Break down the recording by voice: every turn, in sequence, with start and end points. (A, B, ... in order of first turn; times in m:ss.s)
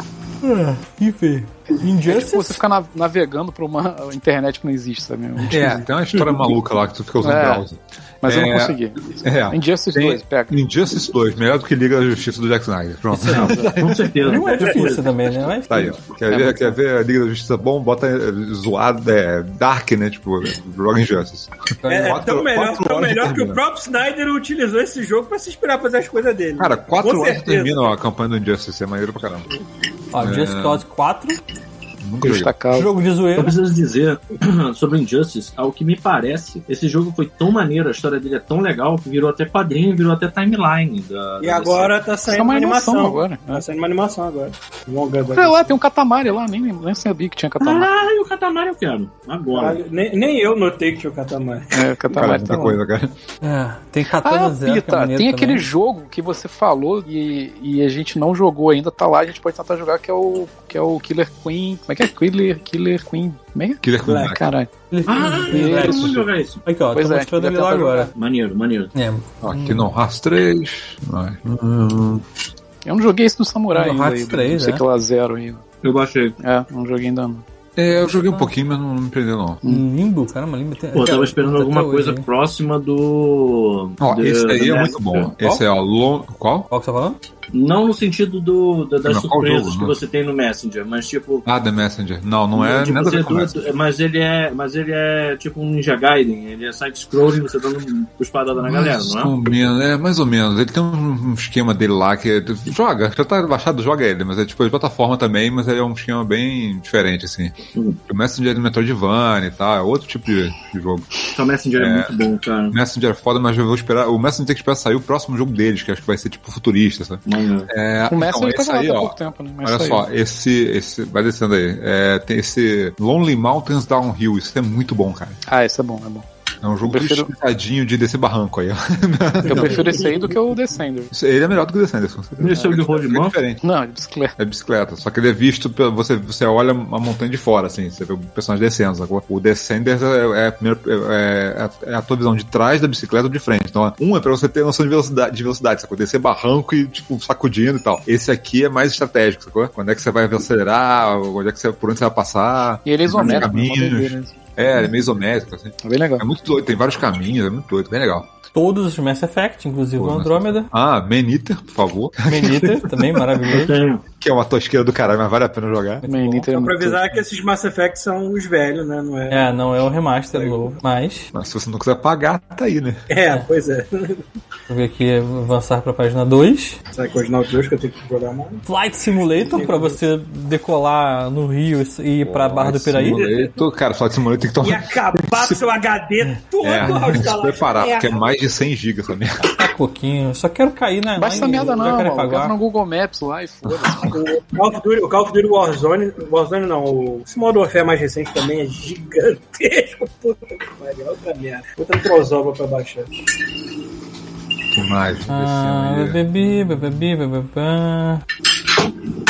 0:00.4-0:02.6 A
0:02.1-0:05.8 B
0:05.5-0:05.8 A
0:05.5-0:14.2 C
0:07.2-0:07.6 B
0:08.2-0:10.6 B
0:13.1-0:13.5 A
0:13.3-0:15.1 D
0:14.2-0:16.0 A
0:15.7-0:23.6 C
0:16.3-0:16.7 B
0:21.8-0:22.2 A
0:21.9-0:27.9 E
0:26.6-0:29.5 C
0:30.1-0:31.4 A
0:30.2-0:30.8 C
0:32.0-0:32.5 C
0:32.2-0:32.9 B
0:32.8-0:33.6 A
0:33.4-0:42.0 D
0:41.4-0:45.8 E
0:42.3-0:43.6 B
0:45.3-0:47.9 B
0:47.6-0:49.8 D
0:49.5-0:51.8 E
0:51.7-0:52.8 B
0:52.1-0:53.1 C
0:53.4-0:55.6 A
0:54.2-1:04.7 B
1:03.8-1:04.5 C
1:04.9-1:08.1 A
1:05.1-1:06.6 D
1:05.4-1:06.3 B
1:06.9-1:08.1 B
1:08.2-1:08.9 D
1:09.0-1:09.9 A
1:09.4-1:12.2 C
1:12.8-1:15.6 B
1:13.7-1:14.8 A
1:15.8-1:16.4 D
1:16.4-1:17.4 B
1:17.8-1:19.6 C
1:18.0-1:18.5 A
1:19.6-1:22.3 A
1:20.9-1:25.3 D
1:24.0-1:26.7 C
1:26.7-1:27.2 A
1:27.5-1:31.5 D
1:29.0-1:30.0 C
1:31.4-1:33.6 C
1:32.6-1:39.4 D
1:38.6-1:47.5 C
1:48.1-1:51.1 C
1:51.3-1:52.8 D
1:51.8-1:52.1 C
1:52.7-2:05.4 C
1:57.3-1:57.7 D
1:58.1-2:00.0 B
2:05.5-2:06.3 B
2:06.6-2:10.2 C
2:06.8-2:07.3 B
2:09.5-2:11.1 B
2:11.1-2:13.6 C
2:12.4-2:13.4 D
2:13.6-2:14.4 B
2:14.4-2:38.3 C
2:32.8-2:34.4 B
2:33.2-2:33.5 D
2:35.8-2:36.2 B
2:38.5-2:40.7 A
2:40.0-2:43.4 C
2:42.3-2:43.7 A
2:43.5-2:44.0 D
2:44.2-2:46.1 C
2:46.0-2:46.4 A
2:46.0-2:47.0 B
2:46.5-2:49.5 E
2:49.3-2:51.3 A
2:50.3-2:50.8 E
2:51.3-2:53.0 C
2:53.1-2:54.2 E
2:54.7-2:56.8 A
2:56.9-2:58.6 E
2:58.7-3:03.2 A
2:59.3-3:00.0 E
3:02.2-3:05.6 C
3:03.1-3:03.5 E
3:04.6-3:08.2 E
3:06.6-3:09.5 C
3:06.8-3:07.2 A
3:09.4-3:12.5 A
3:11.2-3:14.2 B
3:13.7-3:14.1 C
3:14.1-3:23.1 E
3:24.7-3:26.2 C
3:25.3-3:28.2 A